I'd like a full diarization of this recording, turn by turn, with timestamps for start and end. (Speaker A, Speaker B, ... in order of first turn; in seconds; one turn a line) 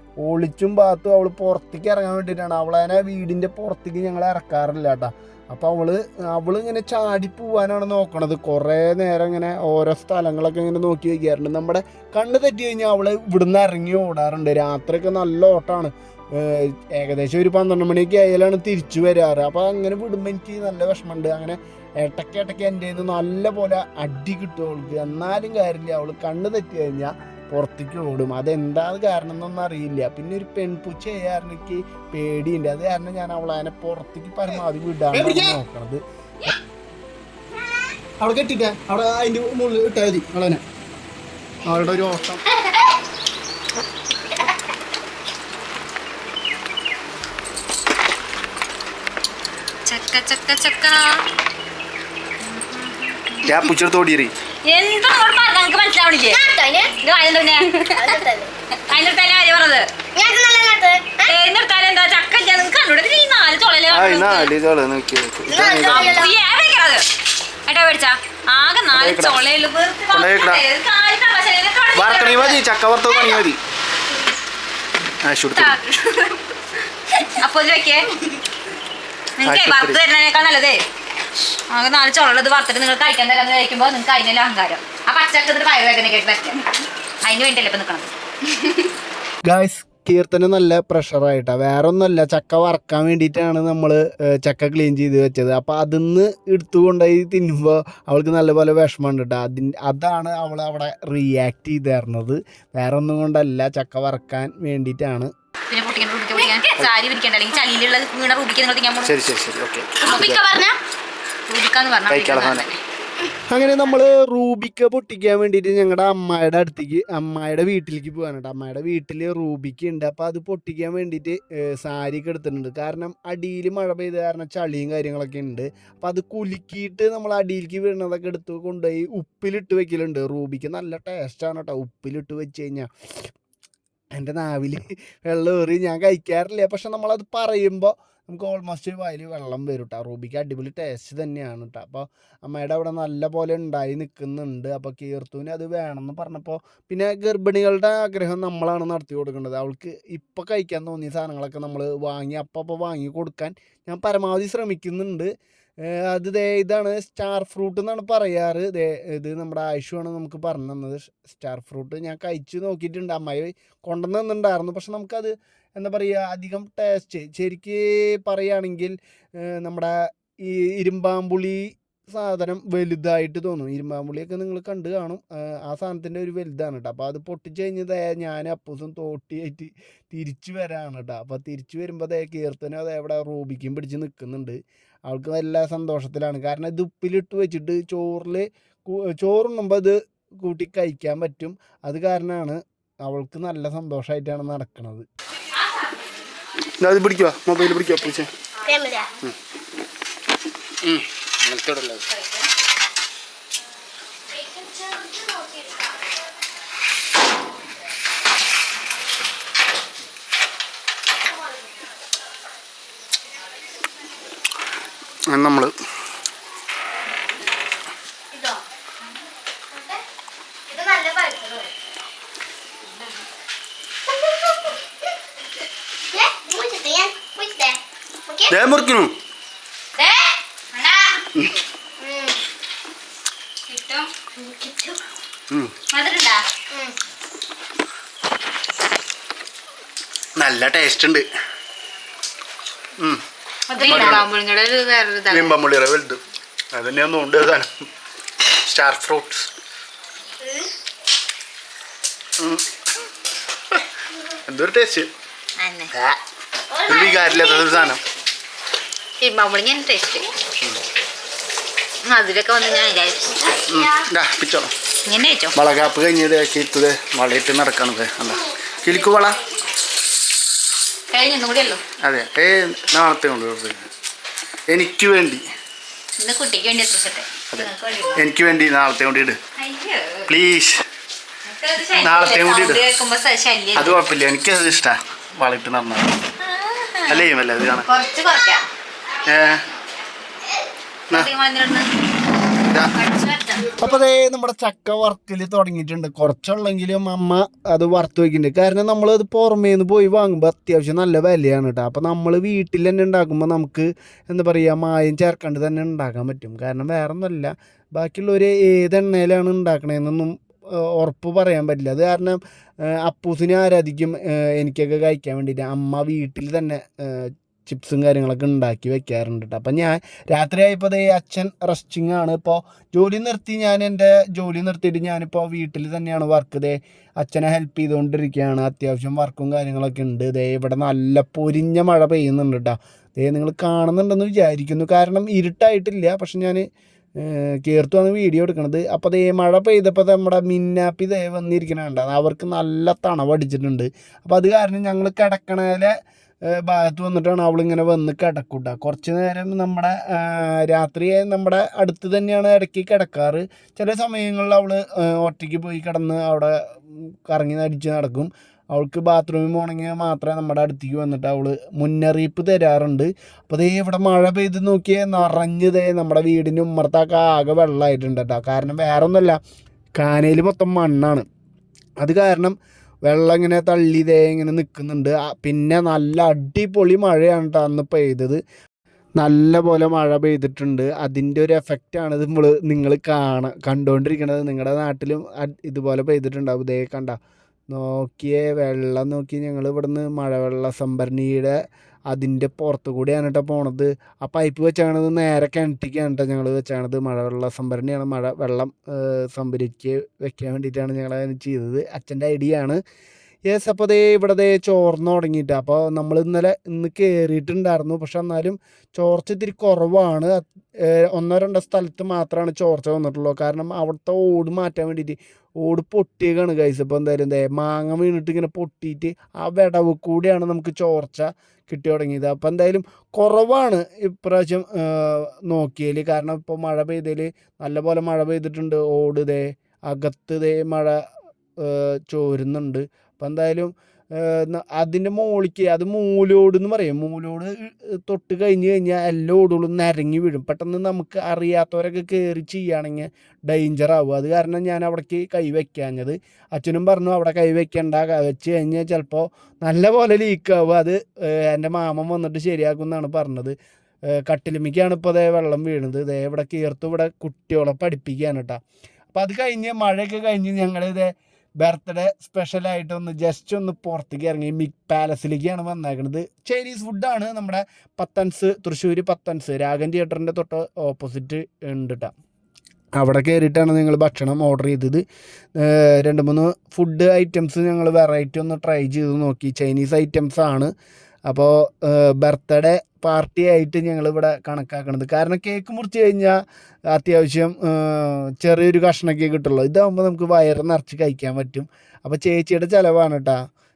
Speaker A: 0.2-36.0
Speaker B: 35.1-35.5
Speaker B: 38.2-40.6
Speaker B: 41.7-42.2
Speaker A: 41.8-42.4
Speaker C: 49.9-51.2
Speaker C: 52.7-53.6
Speaker B: 53.4-54.3
Speaker C: 54.6-56.4
Speaker D: 56.3-57.0
Speaker C: 57.0-58.2
Speaker D: 57.8-58.5
Speaker C: 58.9-59.9
Speaker D: 60.1-61.3
Speaker C: 61.2-64.5
Speaker B: 63.9-66.1
Speaker D: 65.5-66.3
Speaker C: 65.6-67.0
Speaker C: 67.7-72.6
Speaker B: 68.9-69.4
Speaker B: 70.1-70.6
Speaker B: 71.9-73.6
Speaker B: 75.2-75.8
Speaker C: 75.5-76.5
Speaker C: 77.1-78.1
Speaker C: 79.4-80.8
Speaker B: 79.4-80.0
Speaker C: 81.7-86.7
Speaker C: 87.2-88.9
Speaker A: 89.5-105.3
Speaker C: 105.7-109.2
Speaker B: 109.0-110.4
Speaker C: 110.0-110.5
Speaker D: 110.0-110.8
Speaker C: 111.5-112.8
Speaker B: 112.1-112.7
Speaker A: 113.5-133.3
Speaker A: 134.1-155.3
Speaker A: 155.8-195.1
Speaker B: 196.8-198.3
Speaker D: 198.6-199.1
Speaker B: 200.8-202.0
Speaker C: 202.1-202.5
Speaker D: 204.4-205.7
Speaker B: 215.3-215.7
Speaker D: 218.3-218.6
Speaker D: 219.7-220.0
Speaker D: 220.7-221.7
Speaker D: 224.1-224.7
Speaker D: 226.1-228.5
Speaker B: 228.5-229.1
Speaker C: 230.0-231.3
Speaker D: 232.0-232.4
Speaker C: 233.7-234.1
Speaker D: 234.3-235.0
Speaker C: 235.9-236.4
Speaker D: 236.7-237.0
Speaker B: 240.4-241.2
Speaker C: 243.7-245.6
Speaker B: 243.8-244.3
Speaker B: 245.3-246.2
Speaker B: 246.7-247.7
Speaker B: 248.6-249.5
Speaker D: 250.4-250.7
Speaker B: 254.5-255.1
Speaker C: 255.6-255.9
Speaker D: 256.7-257.9
Speaker B: 256.9-258.0
Speaker C: 259.2-260.3
Speaker C: 262.0-263.6
Speaker B: 263.7-264.7
Speaker C: 265.1-265.6
Speaker B: 265.5-269.4
Speaker C: 271.1-271.8
Speaker B: 272.0-273.9
Speaker B: 274.7-275.4
Speaker C: 276.2-278.2
Speaker B: 277.5-279.4
Speaker C: 279.6-280.3
Speaker B: 280.3-280.8
Speaker C: 281.4-284.0
Speaker B: 281.9-282.8
Speaker B: 283.8-286.1
Speaker C: 286.4-287.2
Speaker B: 287.1-287.9
Speaker C: 287.8-288.7
Speaker B: 289.2-289.6
Speaker C: 291.1-291.9
Speaker C: 292.8-293.7
Speaker A: 293.8-310.3
Speaker A: 310.9-336.6
Speaker A: 337.2-345.9
Speaker A: 346.5-369.4
Speaker A: 370.0-371.2
Speaker A: 372.0-372.5
Speaker A: 373.1-378.4
Speaker A: 379.2-387.2
Speaker A: 387.7-391.6
Speaker A: 392.1-402.8
Speaker A: 403.5-431.0
Speaker A: 431.6-453.6
Speaker A: 454.1-458.6
Speaker A: 459.1-472.1
Speaker A: 473.0-475.0
Speaker A: 475.6-480.7
Speaker A: 481.3-486.4
Speaker A: 486.9-493.4